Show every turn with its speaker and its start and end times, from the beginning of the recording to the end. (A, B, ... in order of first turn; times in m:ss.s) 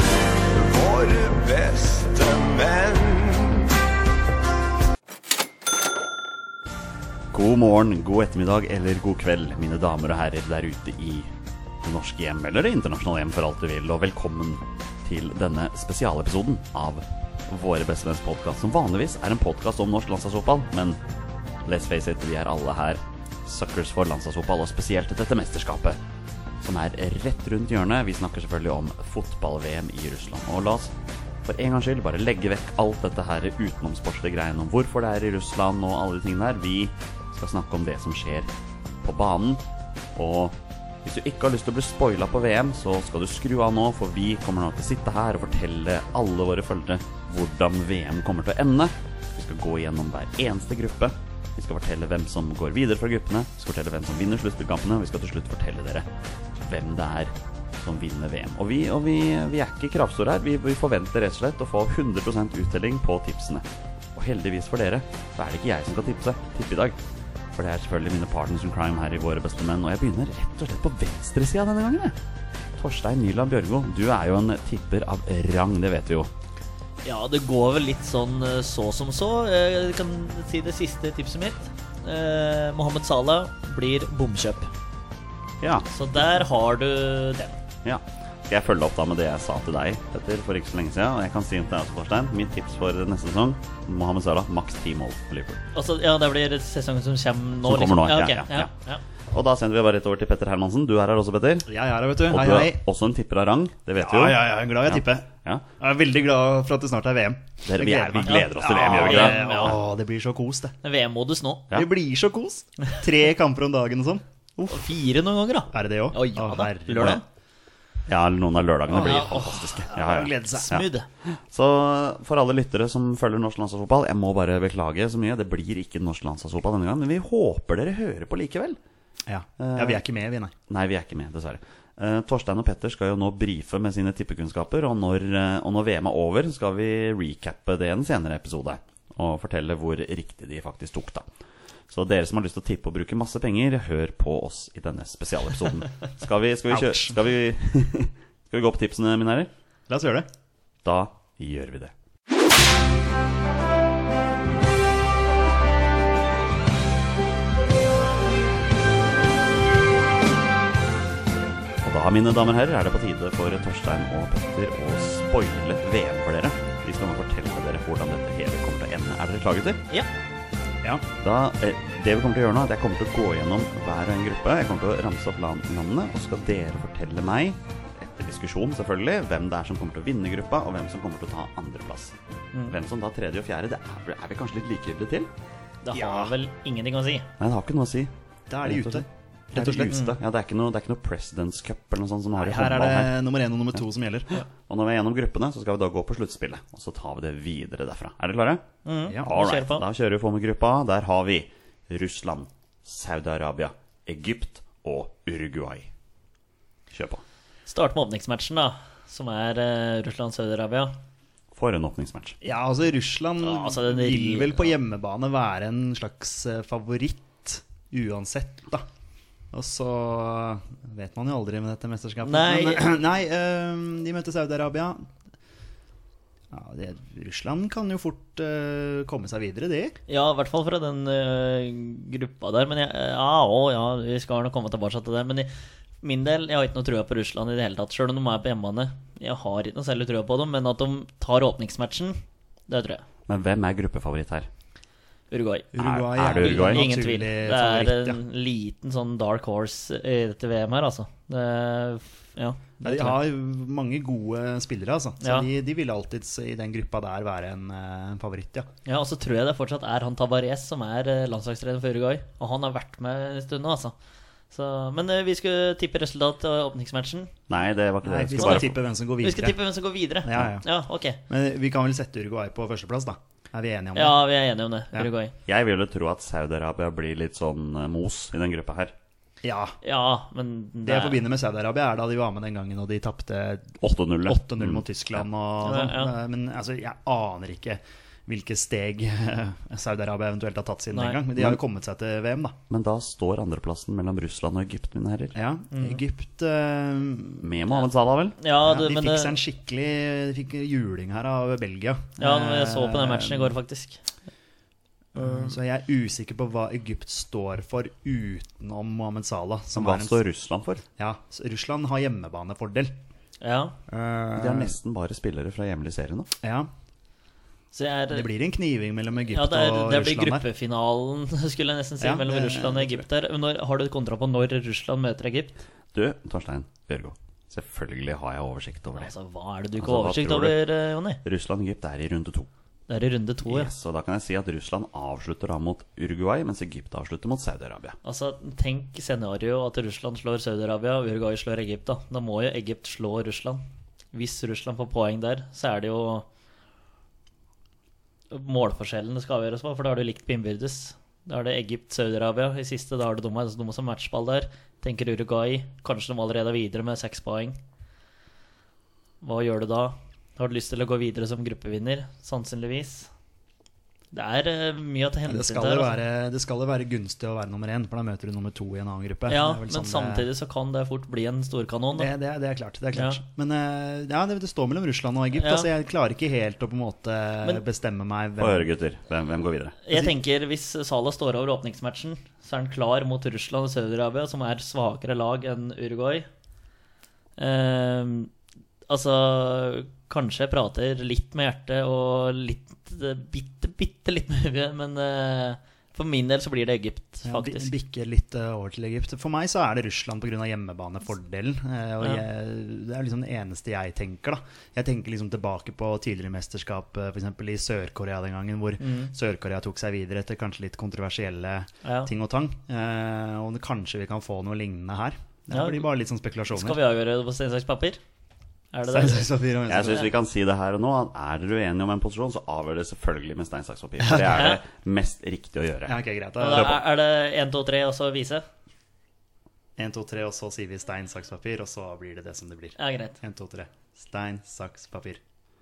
0:00.5-0:03.7 A
0:07.3-0:11.3 B
0:11.8-0:21.0 B
0:21.6-0:26.0 B
0:26.6-0:30.9 B
0:31.4-0:38.5 B
0:39.0-0:39.6 B
0:40.2-0:56.0 B
0:56.6-1:07.0 B
1:07.5-1:12.2 B
1:12.8-1:16.3 B
1:17.0-1:24.7 C
1:25.6-1:25.9 B
1:25.9-1:27.6 C
1:27.8-1:35.6 B
1:35.7-1:39.0 C
1:37.6-1:38.7 B
1:39.3-1:41.7 B
1:41.7-1:42.8 D
1:42.2-1:45.6 B
1:44.0-1:45.3 D
1:45.8-1:50.8 D
1:47.6-1:49.8 B
1:48.2-1:49.8 C
1:50.8-1:51.7 C
1:51.7-1:54.8 D
1:54.6-1:57.2 C
1:55.7-1:57.2 D
1:58.1-2:00.5 B
1:58.9-2:00.8 D
1:59.0-1:59.8 C
2:00.5-2:01.1 C
2:01.2-2:08.8 B
2:09.3-2:10.5 D
2:09.6-2:10.0 B
2:10.7-2:21.2 B
2:21.9-2:29.5 B
2:26.7-2:27.2 D
2:29.9-2:30.3 D
2:30.8-2:31.9 B
2:41.8-2:49.8 B
2:51.2-3:02.1 B
3:02.7-3:05.3 B
3:05.8-3:07.3 C
3:05.9-3:06.3 D
3:07.4-3:08.1 B
3:08.5-3:10.1 D
3:08.6-3:13.1 B
3:12.4-3:14.4 D
3:14.5-3:18.6 B
3:18.8-3:19.8 C
3:19.2-3:25.9 B
3:26.9-3:27.2 B
3:27.6-3:31.0 C
3:31.5-3:32.4 B
3:32.4-3:38.9 D
3:33.4-3:34.7 C
3:39.5-3:45.1 D
3:42.2-3:42.9 C
3:46.5-3:50.0 D
3:50.1-4:03.0 C
4:03.3-4:04.5 B
4:05.3-4:05.7 C
4:05.7-4:08.2 D
4:05.8-4:06.9 B
4:06.3-4:13.2 C
4:12.8-4:18.7 D
4:15.2-4:15.5 C
4:18.8-4:24.0 C
4:24.5-4:27.3 C
4:27.5-4:28.7 B
4:28.0-4:29.6 D
4:28.4-4:31.2 C
4:30.2-4:30.7 D
4:31.3-4:34.2 D
4:33.9-4:35.3 C
4:35.4-4:38.9 B
4:39.4-4:39.8 D
4:39.8-4:41.2 C
4:40.8-4:52.6 D
4:43.8-4:45.2 B
4:45.6-4:46.1 C
4:50.9-4:51.2 C
4:52.7-4:55.3 B
4:55.3-4:57.5 D
4:55.7-4:56.0 C
4:57.4-4:58.4 B
4:58.4-4:59.4 C
4:58.6-5:03.5 D
5:02.2-5:04.0 C
5:05.1-5:10.2 D
5:05.2-5:05.6 C
5:09.7-5:10.8 B
5:11.0-5:13.0 D
5:13.4-5:13.8 C
5:13.9-5:14.7 D
5:14.3-5:16.3 B
5:16.4-5:16.7 D
5:17.7-5:18.3 C
5:18.1-5:20.4 D
5:19.3-5:25.5 C
5:22.0-5:23.0 D
5:25.9-5:29.1 B
5:29.0-5:31.2 C
5:29.8-5:30.7 B
5:31.2-5:32.5 B
5:32.9-5:33.7 C
5:33.4-5:38.0 B
5:38.0-5:46.3 C
5:48.3-5:57.6 C
5:59.2-6:03.1 C
6:04.1-6:06.0 C
6:05.3-6:10.3 D
6:09.3-6:12.1 C
6:12.0-6:18.7 D
6:12.9-6:13.2 C
6:15.3-6:15.7 C
6:18.4-6:19.8 B
6:19.8-6:26.3 C
6:19.9-6:20.2 D
6:27.4-6:28.3 C
6:28.9-6:37.7 C
6:37.2-6:56.8 D
6:48.8-6:49.1 C
6:51.8-6:52.1 C
6:55.5-6:55.9 C
6:56.5-6:58.0 C
6:58.7-6:59.3 C
6:58.9-7:00.1 D
6:59.7-7:06.0 B
7:04.2-7:04.6 C
7:05.8-7:06.8 D
7:06.4-7:08.4 C
7:06.5-7:06.8 B
7:09.8-7:15.2 D
7:12.8-7:13.2 C